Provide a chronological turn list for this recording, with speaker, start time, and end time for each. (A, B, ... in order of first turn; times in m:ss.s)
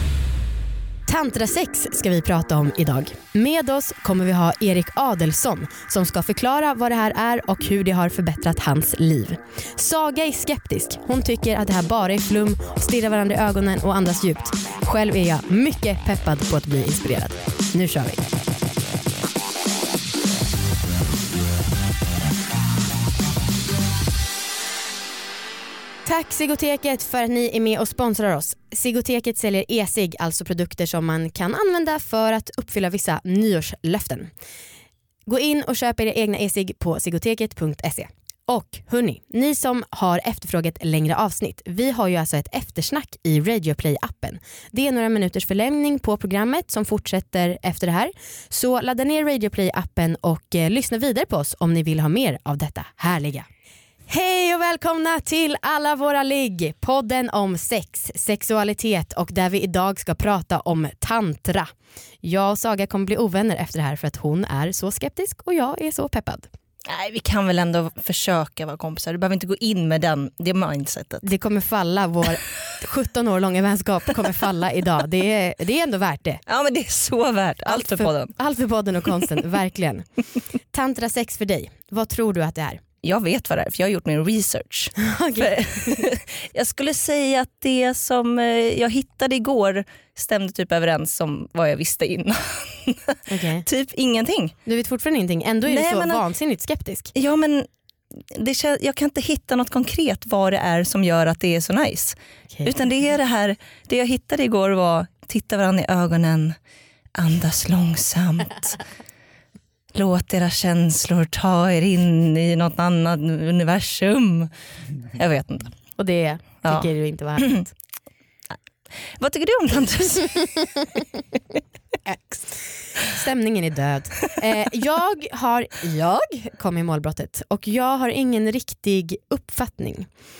0:01.1-0:18.2 A
0:26.0-0:34.3 A
0:35.3-0:53.4 A
0:54.1-1:01.7 A
1:02.2-1:06.5 A
1:06.8-1:11.2 B
1:11.2-1:16.4 A
1:16.5-1:18.3 B
1:17.6-1:20.0 A
1:20.7-1:22.8 A
1:23.0-1:34.5 B
1:25.0-1:26.0 A
1:33.3-1:33.6 A
1:34.6-1:37.1 A
1:35.7-1:36.2 B
1:37.1-1:37.7 B
1:38.3-1:46.6 B
1:47.2-1:48.8 B
1:49.9-1:54.5 B
1:55.1-1:55.7 B
1:56.0-1:57.7 A
1:59.1-2:00.6 B
2:02.0-2:10.1 A